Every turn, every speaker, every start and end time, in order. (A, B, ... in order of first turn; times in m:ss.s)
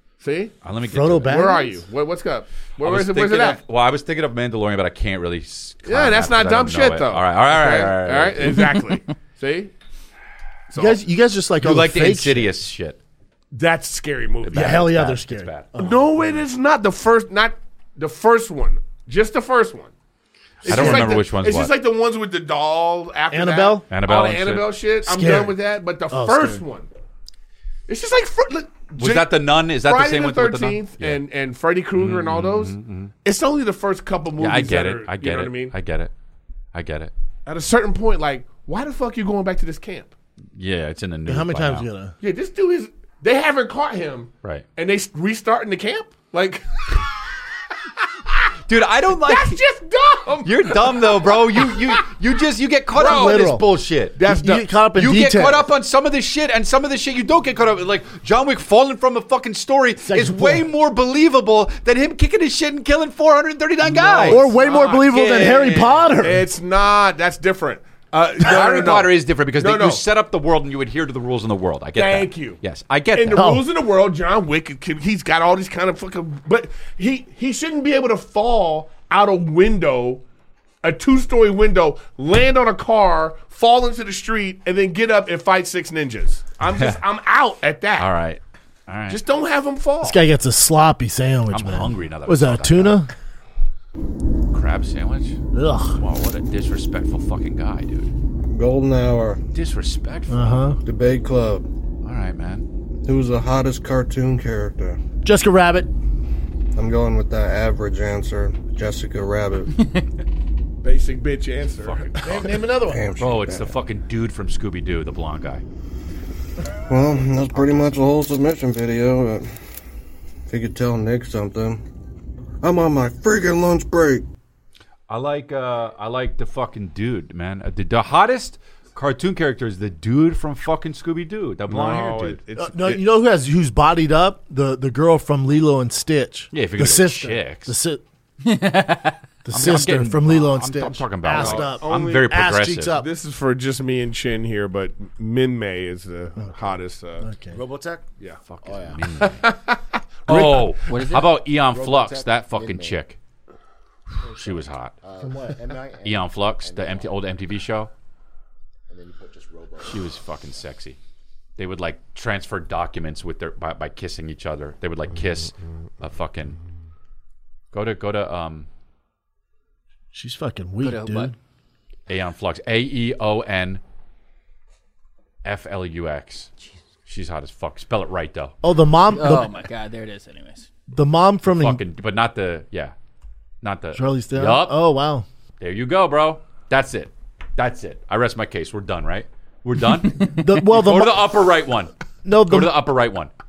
0:00.2-0:00.6 A
0:00.6-0:01.4 B
0:00.8-0:01.8 C
0:01.2-0:03.6 A
0:02.8-0:08.7 B
0:05.8-0:09.7 A
0:10.7-0:11.0 A
0:10.8-0:12.5 C
0:11.6-0:13.0 B
0:13.5-0:14.9 A
0:14.4-0:15.7 B
0:14.5-0:16.1 C
0:15.8-0:19.9 A
0:20.6-0:21.2 C
0:20.6-0:21.7 B
0:20.6-0:26.9 A
0:23.3-0:23.8 C
0:23.9-0:24.7 B
0:25.0-0:25.6 C
0:26.1-0:26.6 C
0:27.9-0:35.7 A
0:29.0-0:31.2 B
0:31.9-0:33.1 B
0:34.4-0:36.1 B
0:36.7-0:37.1 B
0:37.4-0:40.1 A
0:40.5-0:41.9 B
0:41.2-0:42.1 C
0:42.2-0:47.1 A
0:48.7-0:49.6 B
0:49.2-0:52.0 A
0:50.4-0:54.2 B
0:52.9-0:53.5 A
0:52.9-0:53.6 C
0:54.2-0:54.7 A
0:54.2-0:55.7 C
0:54.9-1:04.4 B
1:00.0-1:00.7 C
1:03.8-1:10.0 A
1:04.2-1:06.5 C
1:05.1-1:05.9 B
1:08.4-1:13.5 B
1:12.0-1:12.6 A
1:13.1-1:20.2 A
1:13.3-1:13.7 C
1:20.8-1:28.1 A
1:28.0-1:29.2 B
1:29.1-1:30.2 A
1:30.0-1:33.1 C
1:31.5-1:33.0 B
1:34.5-1:35.4 B
1:35.5-1:36.0 C
1:36.0-1:38.1 B
1:38.5-1:39.4 D
1:39.5-1:40.6 B
1:40.3-1:40.8 C
1:40.8-1:41.6 D
1:42.0-1:42.7 B
1:43.0-1:45.0 D
1:45.2-1:45.9 C
1:46.8-1:49.8 D
1:50.8-1:52.5 A
1:51.8-1:55.6 B
1:52.2-1:53.2 C
1:52.8-1:53.7 D
1:56.9-1:59.5 D
2:00.5-2:01.8 D
2:02.6-2:04.2 D
2:05.1-2:12.4 B
2:11.7-2:13.0 A
2:12.6-2:18.0 C
2:16.5-2:17.7 B
2:18.4-2:19.2 E
2:19.4-2:23.1 C
2:19.5-2:22.9 B
2:21.3-2:22.3 A
2:22.9-2:27.3 A
2:26.4-2:26.7 C
2:27.2-2:27.6 C
2:27.5-2:28.1 F
2:28.4-2:29.4 B
2:28.6-2:29.0 F
2:29.2-2:30.7 A
2:30.3-2:33.2 B
2:30.8-2:31.3 E
2:31.7-2:33.0 F
2:34.2-2:37.3 F
2:34.3-2:34.9 B
2:35.2-2:35.6 C
2:36.0-2:37.9 B
2:38.9-2:40.2 F
2:39.8-2:41.0 B
2:41.6-2:46.6 B
2:47.7-2:48.7 B
2:50.1-2:51.3 C
2:50.8-2:51.3 E
2:52.1-2:53.8 B
2:55.4-2:56.5 B
2:57.0-2:58.6 B
2:58.6-2:59.5 C
2:59.1-3:00.7 E
3:00.9-3:01.8 C
3:01.4-3:02.9 B
3:03.6-3:04.8 B
3:03.9-3:05.2 C
3:05.6-3:11.9 B
3:10.2-3:11.5 C
3:12.2-3:12.7 C
3:12.4-3:13.3 B